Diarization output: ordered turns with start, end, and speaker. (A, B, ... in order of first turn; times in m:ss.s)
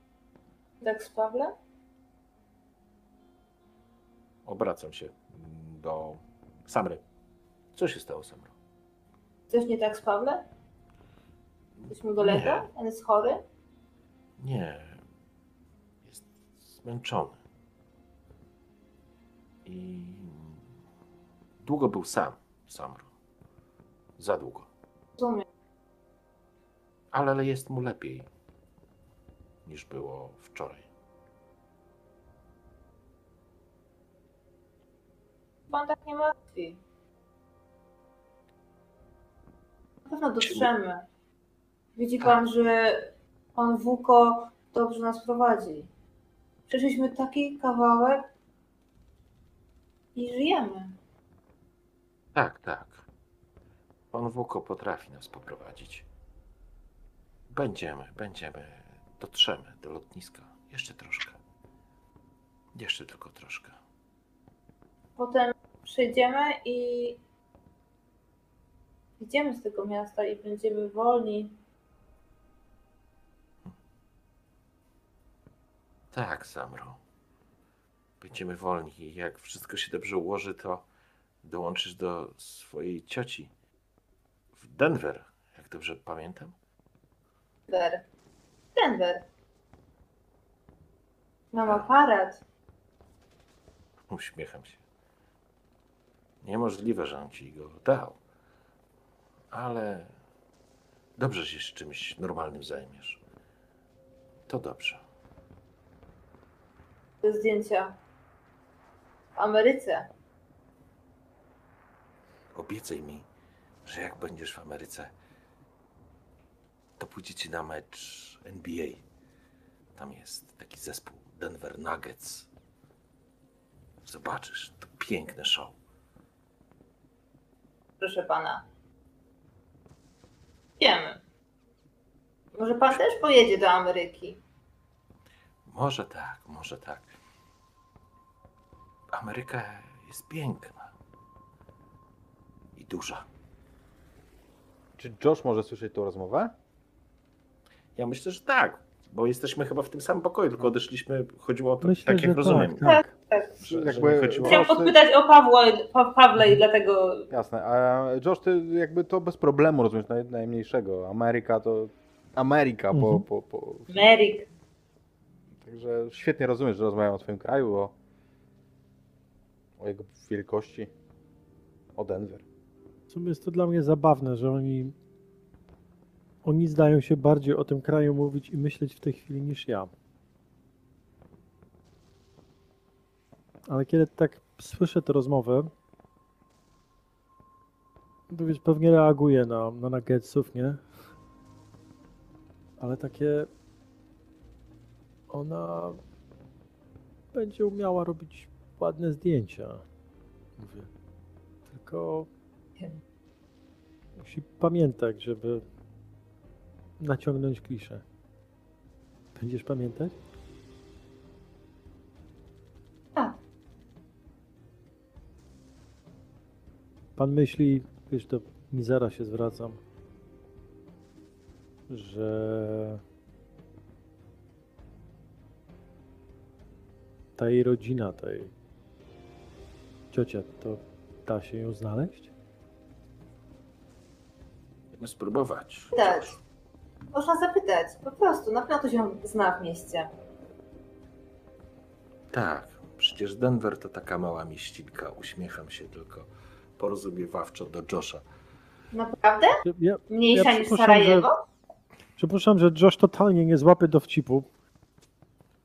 0:00.8-0:01.5 A
0:04.4-0:07.0 B
0:07.7-0:08.5 B
0:09.5-0:10.4 A
0:11.8-0:12.7 B
0:11.9-0:13.4 A
0:14.4-0:15.0 B
0:16.0-0:17.4 B
0:19.6-0:20.6 B
0:21.6-0:23.1 B
0:24.2-0:24.7 B
0:25.2-0:25.4 A
0:27.1-0:28.3 B
0:29.7-0:30.9 B
0:35.7-0:36.8 A
0:40.1-0:41.0 A
0:42.0-0:45.9 A
0:46.7-0:48.3 A
0:50.1-0:51.0 A
0:52.3-0:53.0 B
0:54.1-0:56.0 B
0:57.5-1:01.4 B
1:02.7-1:03.7 B
1:05.2-1:07.2 A
1:09.2-1:11.6 A
1:16.1-1:17.0 B
1:18.2-1:20.8 B
1:21.4-1:23.5 B
1:24.6-1:26.6 B
1:27.7-1:28.0 A
1:28.7-1:29.3 A
1:31.5-1:32.4 A
1:34.1-1:34.8 B
1:36.4-1:38.2 B
1:39.5-1:40.1 B
1:41.2-1:43.2 B
1:44.5-1:45.0 B
1:47.2-1:48.0 A
1:49.4-1:50.1 A
1:52.5-1:53.3 B
1:53.8-1:55.1 B
1:57.0-1:59.0 B
2:00.0-2:02.5 B
2:04.0-2:05.8 B
2:08.0-2:08.7 A
2:10.8-2:11.2 A
2:12.5-2:14.4 A
2:15.7-2:17.1 B
2:19.1-2:20.9 B
2:22.8-2:23.3 B
2:25.0-2:26.5 C
2:28.0-2:33.0 B
2:31.8-2:33.1 D
2:32.8-2:33.5 A
2:33.6-2:34.7 B
2:33.6-2:35.0 C
2:34.4-2:37.3 A
2:37.3-2:44.1 C
2:42.9-2:43.2 D
2:43.9-2:44.5 A
2:45.6-2:47.9 C
2:49.8-2:50.9 C
2:52.0-2:52.4 C
2:53.1-2:55.0 D
2:56.4-2:59.9 D
3:03.7-3:05.7 D
3:08.3-3:10.8 D
3:12.8-3:13.5 D
3:15.3-3:16.0 D
3:17.3-3:19.8 D
3:20.6-3:20.9 D
3:21.7-3:22.3 D
3:24.2-3:25.6 D
3:27.0-3:28.0 D
3:29.4-3:30.1 D
3:37.2-3:39.8 D
3:41.9-3:43.0 D
3:47.4-3:48.5 D
3:50.1-3:52.3 D
3:55.0-3:56.4 B
3:55.9-3:56.3 A
3:57.1-4:00.1 A
4:02.3-4:06.3 B
4:06.8-4:08.2 B
4:08.9-4:11.4 A
4:09.6-4:11.3 D
4:12.2-4:14.5 D